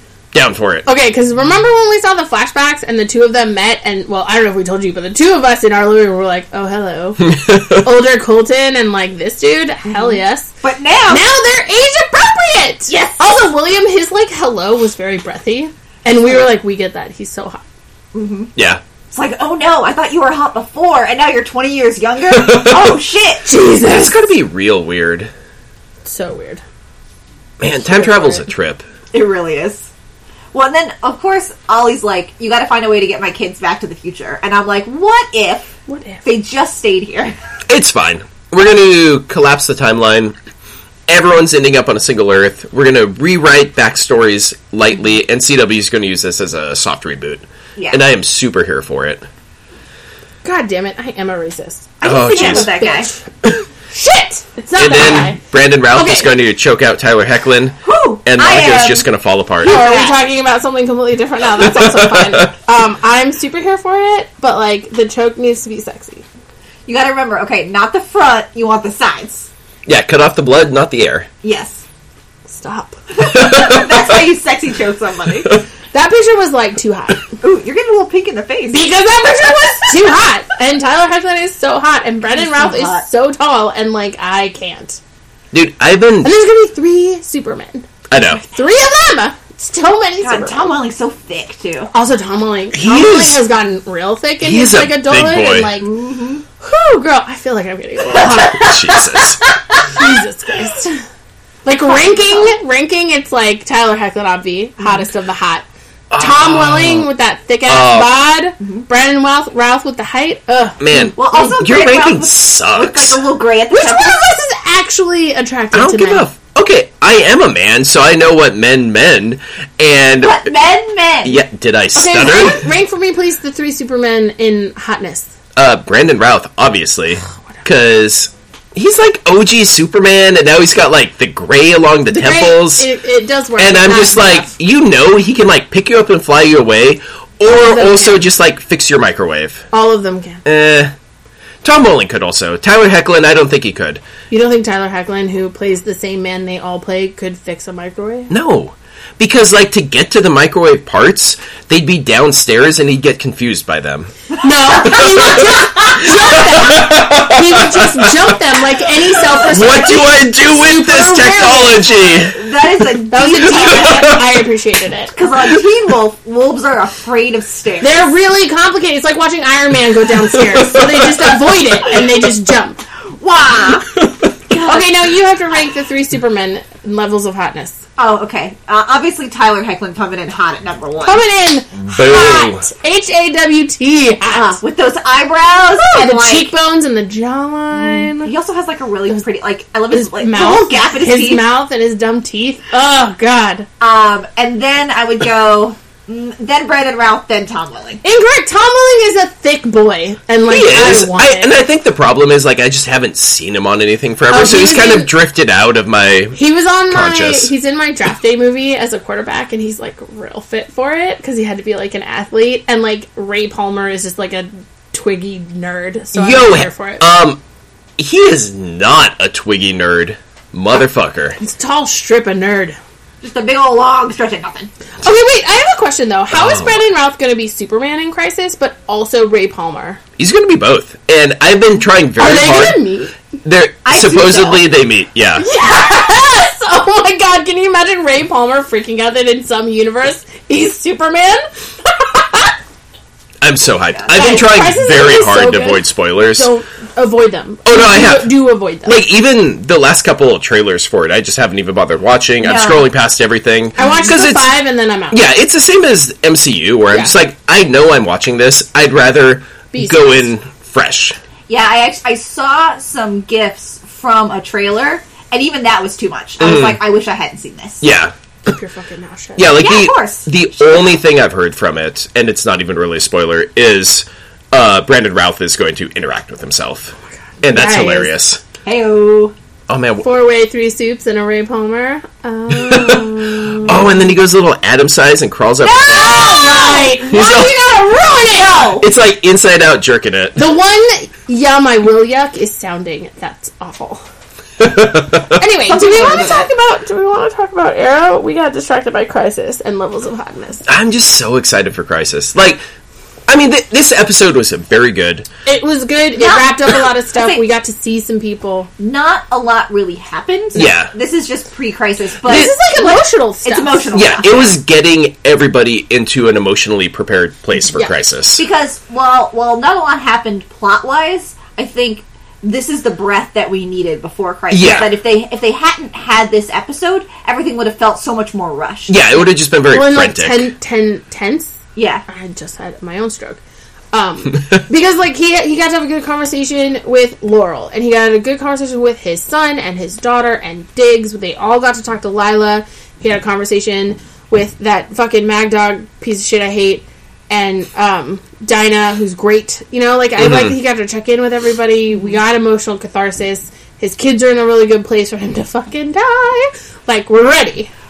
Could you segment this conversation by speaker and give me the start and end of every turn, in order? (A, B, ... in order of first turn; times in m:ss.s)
0:00.3-0:00.9 A
0:00.9-0:10.5 B
0:07.2-0:07.9 A
0:09.9-0:11.2 C
0:11.1-0:17.6 B
0:12.9-0:13.4 C
0:18.1-0:18.5 C
0:18.6-0:18.8 A
0:19.1-0:23.5 C
0:22.4-0:23.0 A
0:23.4-0:24.2 B
0:23.8-0:25.3 A
0:26.0-0:26.6 B
0:27.6-0:28.8 A
0:27.8-0:28.5 B
0:29.1-0:29.9 C
0:30.5-0:37.4 C
0:35.9-0:36.2 B
0:37.7-0:40.4 A
0:41.1-0:49.2 A
0:47.8-0:48.0 C
0:50.4-0:53.2 B
0:52.0-0:53.1 C
0:52.0-0:52.7 A
0:53.9-0:56.3 B
0:54.8-0:59.8 A
0:57.8-0:59.0 C
0:59.6-1:00.2 C
0:59.7-1:06.2 B
1:01.6-1:02.5 A
1:06.9-1:09.5 C
1:09.9-1:11.3 A
1:11.4-1:11.8 C
1:12.5-1:13.0 B
1:13.2-1:15.5 C
1:13.2-1:14.1 A
1:15.9-1:17.3 B
1:17.4-1:18.9 C
1:18.7-1:25.0 B
1:22.3-1:23.0 C
1:25.5-1:26.3 A
1:26.2-1:30.7 B
1:28.1-1:28.4 A
1:30.2-1:31.9 C
1:31.9-1:35.9 B
1:32.7-1:33.4 A
1:34.4-1:35.7 A
1:35.8-1:36.4 C
1:36.6-1:38.8 B
1:38.2-1:39.4 A
1:38.6-1:39.8 C
1:39.9-1:41.0 B
1:41.6-1:51.2 B
1:41.7-1:42.5 C
1:46.1-1:47.1 A
1:47.7-1:48.1 A
1:48.6-1:48.9 C
1:50.8-1:53.2 A
1:51.2-1:54.3 C
1:53.7-1:56.3 B
1:55.7-2:00.5 A
2:00.2-2:01.4 C
2:01.2-2:02.6 A
2:02.0-2:05.3 B
2:05.6-2:12.9 A
2:12.1-2:14.5 B
2:13.6-2:19.7 A
2:17.5-2:18.2 B
2:19.7-2:20.4 B
2:20.4-2:20.9 A
2:21.6-2:24.0 A
2:24.3-2:28.3 B
2:28.3-2:34.1 A
2:34.4-2:41.9 B
2:34.5-2:35.9 C
2:35.1-2:35.4 A
2:36.0-2:38.3 A
2:39.4-2:42.4 A
2:42.3-2:44.2 C
2:43.1-2:45.1 B
2:43.6-2:44.2 A
2:45.1-2:48.1 C
2:47.8-2:52.8 B
2:50.3-2:51.4 A
2:53.2-2:53.9 C
2:54.0-2:54.3 A
2:54.5-2:54.9 C
2:54.6-2:57.8 B
2:58.0-3:01.2 C
3:01.0-3:04.6 B
3:01.9-3:02.7 A
3:04.3-3:06.5 C
3:05.8-3:08.3 B
3:07.8-3:11.4 C
3:09.9-3:13.7 B
3:13.8-3:18.0 C
3:18.0-3:21.6 B
3:20.5-3:26.4 A
3:24.3-3:25.1 B
3:26.3-3:37.0 B
3:26.9-3:27.5 A
3:36.1-3:37.4 A
3:38.0-3:41.4 A
3:41.4-3:42.8 B
3:43.2-3:44.7 C
3:45.0-3:50.0 B
3:46.3-3:46.8 A
3:50.2-3:52.8 A
3:52.2-3:53.1 B
3:53.4-3:55.5 A
3:53.8-3:54.6 C
3:55.4-4:02.5 B
4:03.4-4:06.5 A
4:03.9-4:04.4 C
4:04.1-4:09.0 B
4:07.6-4:08.3 A
4:08.8-4:14.5 A
4:12.4-4:12.9 C
4:13.8-4:15.2 B
4:15.1-4:21.2 A
4:16.9-4:17.2 B
4:19.7-4:20.3 B
4:21.5-4:27.8 C
4:26.4-4:26.8 A
4:27.8-4:28.1 A
4:28.4-4:29.5 B
4:29.4-4:38.4 A
4:29.6-4:30.9 C
4:37.5-4:38.1 B
4:38.6-4:39.3 C
4:39.7-4:40.1 A
4:40.0-4:44.0 B
4:42.5-4:46.3 A
4:45.6-4:47.0 C
4:45.9-4:48.7 B
4:47.0-4:47.5 A
4:48.3-4:48.9 C
4:48.8-4:50.4 A
4:50.4-4:54.0 B
4:54.6-4:55.4 A
4:55.4-5:00.6 B
4:55.7-4:56.5 C
5:00.7-5:02.6 A
5:03.3-5:05.3 A
5:05.5-5:08.7 B
5:06.2-5:07.4 C
5:08.8-5:14.6 C
5:10.6-5:10.9 A
5:12.2-5:13.9 B
5:13.9-5:18.4 A
5:17.6-5:29.0 C
5:24.5-5:24.9 A
5:28.9-5:30.5 A
5:29.7-5:33.4 B
5:31.8-5:32.0 C
5:33.9-5:57.7 B
5:50.2-5:50.5 A
5:51.9-5:52.2 C